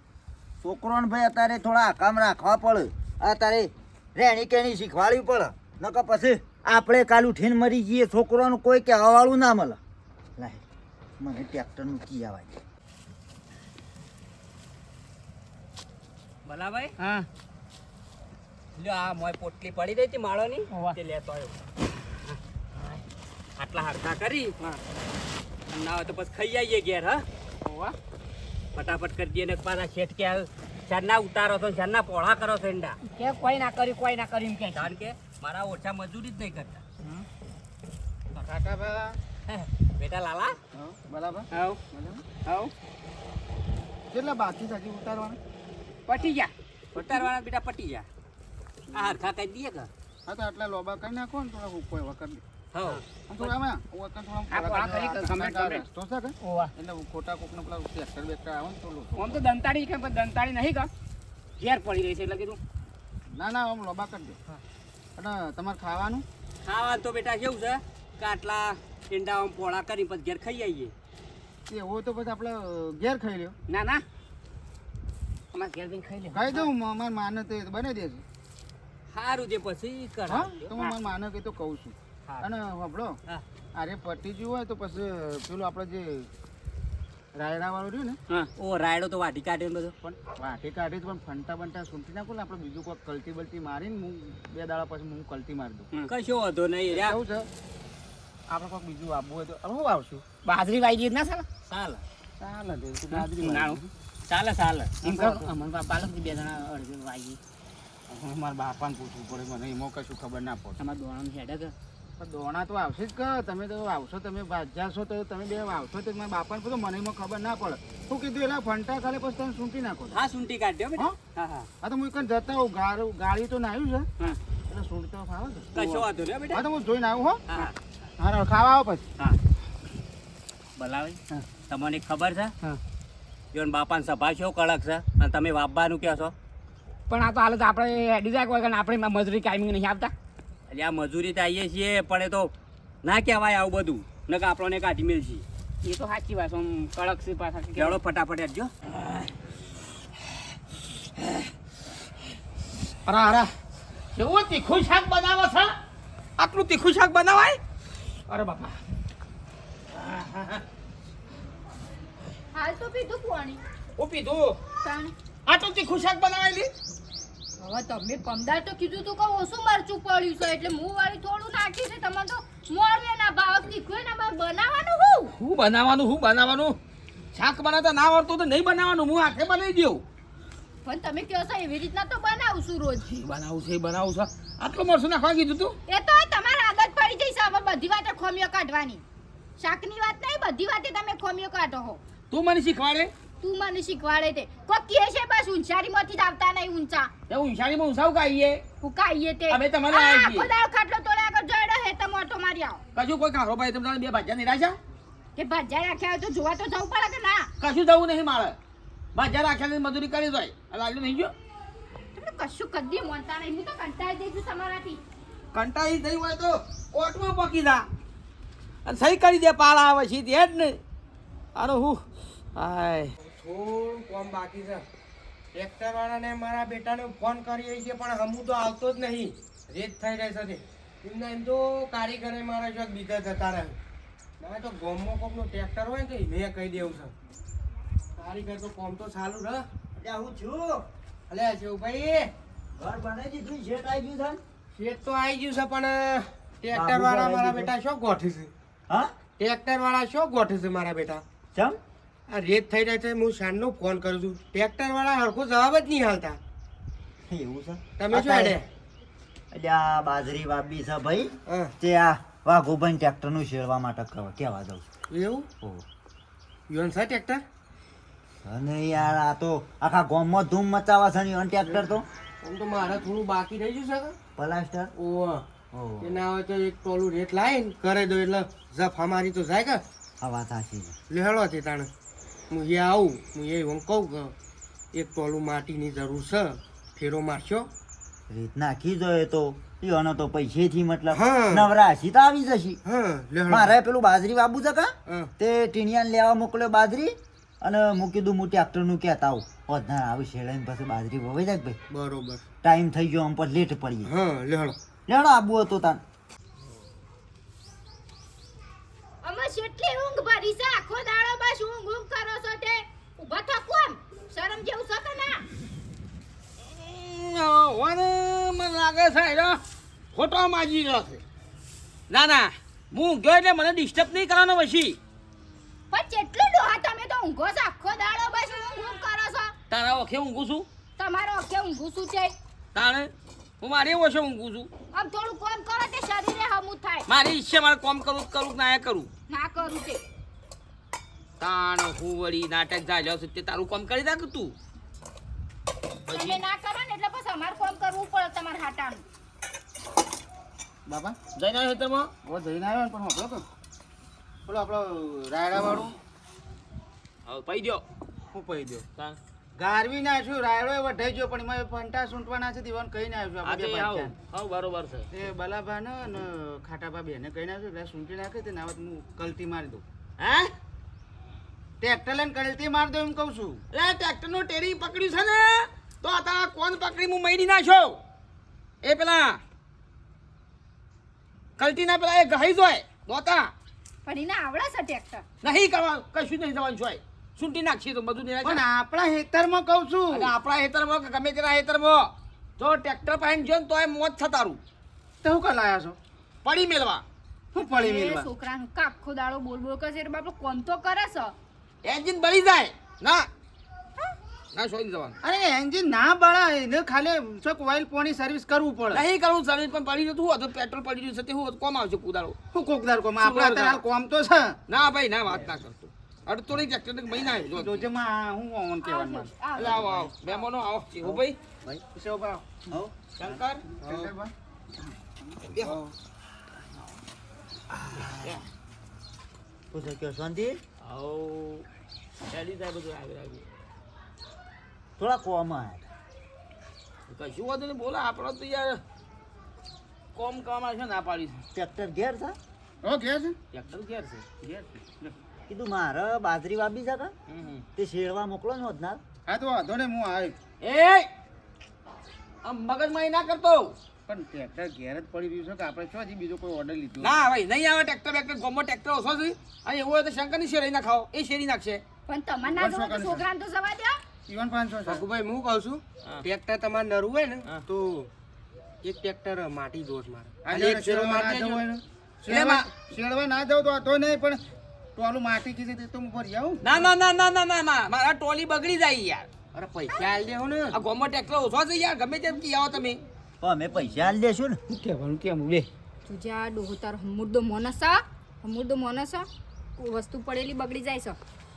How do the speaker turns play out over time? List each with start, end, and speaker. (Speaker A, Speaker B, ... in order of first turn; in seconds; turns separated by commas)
Speaker A: 0.6-9.8, Speaker A: 10.4-10.6, Speaker A: 11.2-12.6, Speaker B: 16.5-16.9, Speaker C: 17.0-17.3, Speaker B: 18.8-21.6, Speaker C: 20.7-21.0, Speaker B: 23.6-24.5, Speaker B: 25.7-27.3, Speaker C: 27.6-27.9, Speaker B: 28.8-33.0, Speaker C: 33.0-35.0, Speaker B: 34.9-36.8, Speaker D: 38.4-39.2, Speaker B: 39.5-40.6, Speaker D: 40.7-42.2, Speaker C: 41.5-41.8, Speaker C: 42.4-42.7, Speaker D: 44.1-45.4, Speaker C: 46.1-47.3, Speaker B: 47.0-48.1, Speaker B: 48.9-49.9, Speaker D: 50.3-52.4, Speaker B: 52.7-53.0, Speaker D: 53.3-59.4, Speaker C: 54.5-55.8, Speaker C: 56.4-56.7, Speaker C: 59.1-60.9, Speaker C: 61.6-62.6, Speaker D: 63.3-64.4, Speaker D: 65.2-66.3, Speaker B: 66.6-70.9, Speaker D: 71.7-73.5, Speaker C: 73.7-74.0, Speaker C: 75.5-76.7, Speaker D: 76.3-78.2, Speaker B: 79.1-80.4, Speaker D: 80.3-83.2, Speaker D: 83.8-86.3, Speaker D: 87.3-88.2, Speaker B: 88.6-89.9, Speaker D: 90.0-95.9, Speaker B: 96.1-96.9, Speaker D: 96.9-97.5, Speaker D: 98.5-100.2, Speaker C: 100.5-101.5, Speaker B: 101.7-102.0, Speaker D: 102.4-103.9, Speaker C: 103.1-103.8, Speaker B: 104.3-104.9, Speaker D: 105.0-105.5, Speaker C: 105.0-107.4, Speaker D: 108.1-110.8, Speaker C: 110.8-111.7, Speaker D: 112.2-120.2, Speaker B: 120.2-121.7, Speaker D: 121.8-124.1, Speaker D: 124.7-127.4, Speaker B: 125.8-126.6, Speaker D: 128.2-129.1, Speaker B: 130.8-132.5, Speaker B: 133.5-136.3, Speaker C: 137.1-140.1, Speaker B: 140.7-142.5, Speaker B: 143.0-145.4, Speaker C: 145.8-148.0, Speaker B: 148.0-148.7, Speaker E: 153.1-153.5, Speaker E: 154.2-155.8, Speaker E: 156.4-157.6, Speaker E: 158.3-158.8, Speaker E: 159.9-160.6, Speaker F: 162.5-163.6, Speaker E: 164.0-164.6, Speaker F: 164.8-165.1, Speaker E: 165.5-166.7, Speaker F: 167.6-175.3, Speaker E: 175.4-176.8, Speaker E: 177.3-180.0, Speaker F: 180.8-183.1, Speaker E: 183.1-185.8, Speaker F: 185.9-189.0, Speaker F: 189.6-192.0, Speaker E: 192.3-193.1, Speaker F: 193.4-197.1, Speaker E: 197.3-198.6, Speaker F: 198.8-202.8, Speaker E: 199.5-200.5, Speaker E: 202.9-204.8, Speaker F: 205.4-207.5, Speaker E: 207.6-208.6, Speaker E: 209.1-211.3, Speaker F: 212.2-215.0, Speaker E: 215.5-217.9, Speaker E: 218.8-220.8, Speaker E: 221.6-222.0, Speaker E: 222.6-223.1, Speaker G: 223.2-224.8, Speaker G: 225.5-233.8, Speaker G: 234.4-237.1, Speaker G: 238.2-239.7, Speaker A: 239.9-240.8, Speaker G: 241.3-242.3, Speaker A: 242.8-244.4, Speaker G: 244.8-248.5, Speaker A: 246.7-247.7, Speaker G: 249.4-251.2, Speaker A: 251.5-251.8, Speaker G: 252.3-256.4, Speaker A: 257.3-258.6, Speaker G: 258.0-258.7, Speaker A: 259.5-264.9, Speaker G: 261.5-261.7, Speaker G: 265.1-265.5, Speaker G: 266.7-267.4, Speaker A: 268.4-272.1, Speaker G: 272.4-274.2, Speaker A: 274.4-274.9, Speaker G: 274.9-275.5, Speaker A: 275.7-276.2, Speaker G: 276.0-279.8, Speaker A: 280.2-281.0, Speaker G: 281.1-281.9, Speaker G: 282.5-284.3, Speaker G: 284.9-287.7, Speaker A: 288.3-292.8, Speaker G: 291.1-291.7, Speaker G: 292.9-293.7, Speaker A: 293.5-301.8, Speaker G: 301.9-302.4, Speaker A: 302.6-304.1, Speaker G: 304.1-304.8, Speaker A: 305.1-306.0, Speaker F: 309.2-315.4, Speaker E: 316.7-319.6, Speaker E: 320.1-321.2, Speaker E: 322.1-325.0, Speaker F: 325.9-329.5, Speaker E: 329.7-330.7, Speaker F: 331.0-332.3, Speaker E: 332.8-334.7, Speaker F: 334.9-337.1, Speaker E: 337.1-339.1, Speaker F: 339.3-340.0, Speaker E: 341.4-344.6, Speaker E: 346.1-346.4, Speaker F: 346.1-349.0, Speaker D: 350.9-351.2, Speaker E: 351.4-352.1, Speaker D: 352.2-353.4, Speaker D: 354.5-356.0, Speaker E: 357.3-357.8, Speaker D: 358.3-358.9, Speaker D: 359.6-364.1, Speaker E: 363.4-365.1, Speaker D: 365.1-369.8, Speaker E: 370.2-370.5, Speaker D: 371.8-373.6, Speaker E: 373.7-378.0, Speaker E: 378.8-379.4, Speaker E: 381.6-383.5, Speaker F: 384.1-385.2, Speaker E: 385.4-388.6, Speaker D: 388.4-390.3, Speaker E: 390.1-394.6, Speaker D: 395.2-396.0, Speaker E: 396.4-397.0, Speaker D: 397.5-398.3, Speaker F: 397.5-401.4, Speaker E: 401.8-403.3, Speaker E: 404.5-405.1, Speaker D: 405.2-409.1, Speaker E: 408.9-412.4, Speaker D: 412.5-414.6, Speaker E: 413.2-413.8, Speaker E: 414.7-417.9, Speaker D: 417.5-419.3, Speaker F: 418.8-420.4, Speaker E: 419.6-421.4, Speaker A: 421.0-421.8, Speaker D: 421.9-422.6, Speaker A: 422.7-422.9, Speaker E: 423.2-423.7, Speaker D: 423.8-424.3, Speaker G: 423.9-424.1, Speaker D: 424.9-425.9, Speaker E: 428.0-428.4, Speaker A: 429.7-430.6, Speaker E: 430.8-431.7, Speaker E: 432.3-433.4, Speaker A: 435.0-435.9, Speaker E: 437.1-438.8, Speaker E: 440.1-441.4, Speaker A: 441.6-442.4, Speaker D: 442.8-443.4, Speaker E: 443.5-444.3, Speaker A: 445.5-447.1, Speaker E: 447.3-447.6, Speaker A: 447.8-449.0, Speaker D: 449.3-450.4, Speaker E: 450.6-451.1, Speaker E: 452.4-453.8, Speaker D: 454.1-457.2, Speaker E: 457.0-461.8, Speaker F: 462.1-464.0, Speaker D: 462.5-463.2, Speaker D: 464.3-465.1, Speaker G: 464.9-468.1, Speaker G: 468.8-471.6, Speaker D: 470.4-474.4, Speaker E: 472.3-472.7, Speaker D: 475.0-476.9, Speaker E: 476.6-479.3, Speaker G: 479.5-480.8, Speaker E: 480.7-483.0, Speaker A: 483.4-484.6, Speaker D: 484.7-485.7, Speaker F: 486.1-491.2